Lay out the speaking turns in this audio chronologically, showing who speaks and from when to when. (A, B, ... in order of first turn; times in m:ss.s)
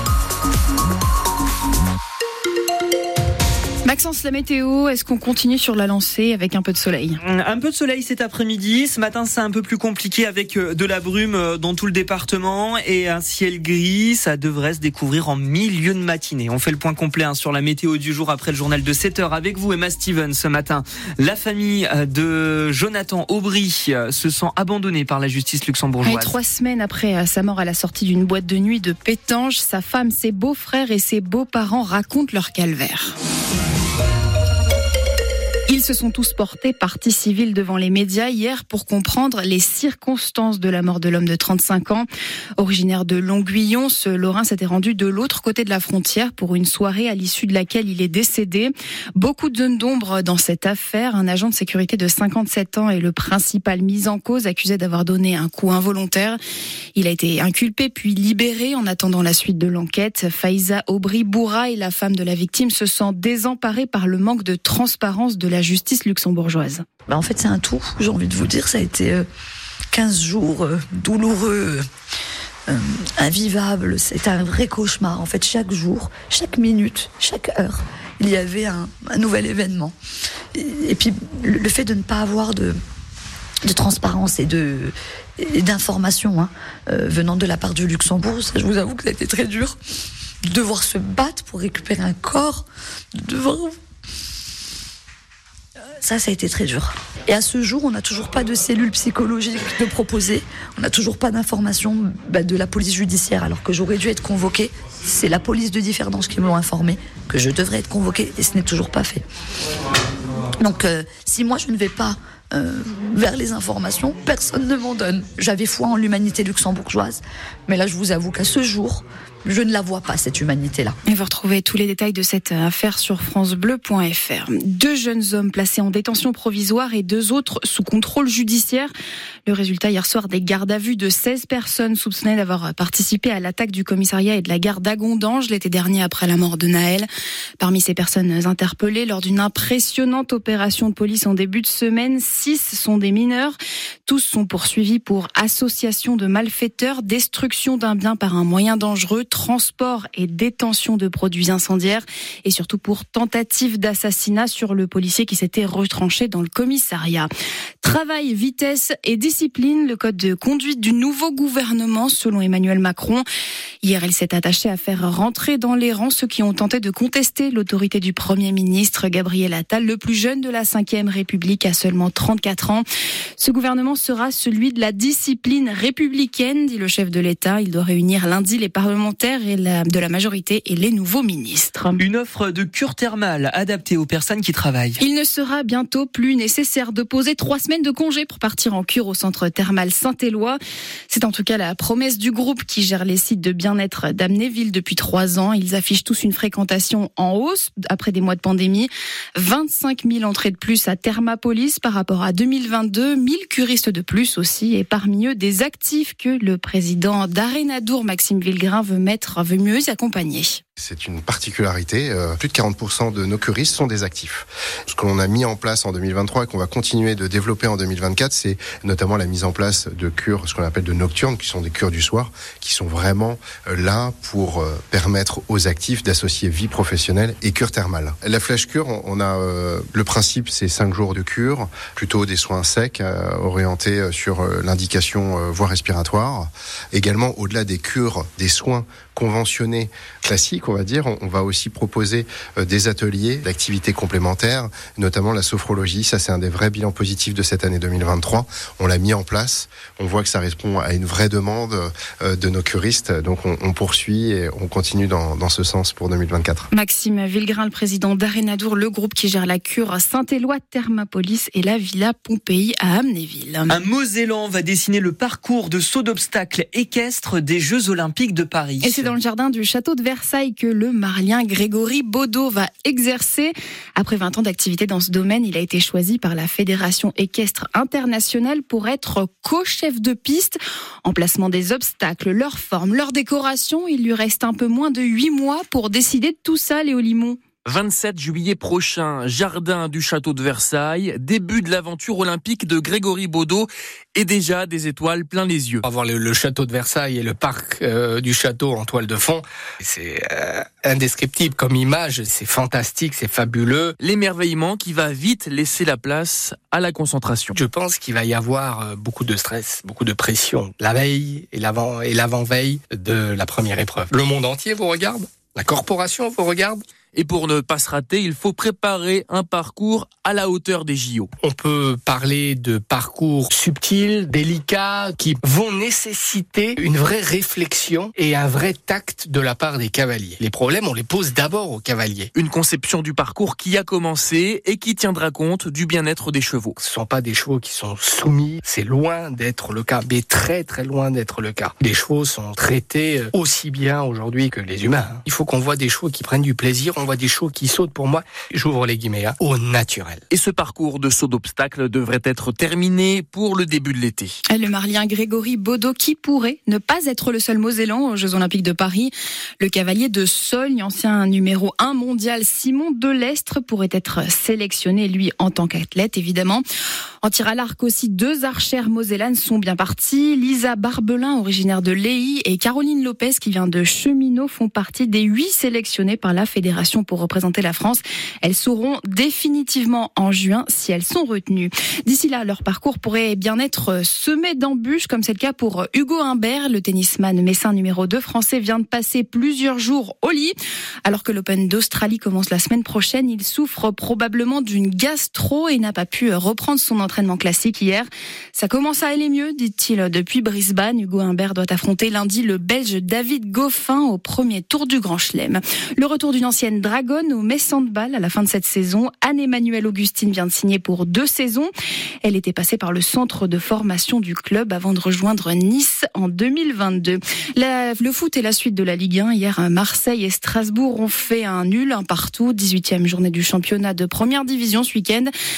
0:03.8-0:07.2 A
0:07.2-0:26.4 B
0:26.0-0:33.2 A
0:35.7-0:56.4 A
0:57.0-1:06.8 A
1:07.1-1:09.2 C
1:09.9-1:11.8 C
1:12.7-1:19.9 C
1:20.6-1:22.8 C
1:23.6-1:29.8 C
1:30.5-1:32.7 C
1:33.2-1:33.8 C
1:36.0-1:49.2 C
1:50.6-2:01.0 C
2:01.1-2:08.9 A
2:09.5-2:37.3 A
2:37.8-2:43.3 A
2:43.8-2:52.9 A
2:53.4-3:02.0 A
3:02.0-3:05.0 B
3:05.0-3:30.6 A
3:30.8-4:16.7 D
4:16.7-4:23.8 A
4:23.7-4:29.1 B
4:28.8-4:47.4 A
4:47.6-4:55.8 E
4:55.9-5:03.9 F
5:04.0-5:07.5 E
5:07.6-5:16.8 F
5:17.1-5:21.3 E
5:21.4-5:32.3 F
5:32.4-5:36.8 E
5:36.8-5:50.2 F
5:50.3-5:54.3 E
5:54.5-6:06.6 A
6:07.2-6:51.7 A
6:52.2-7:05.3 A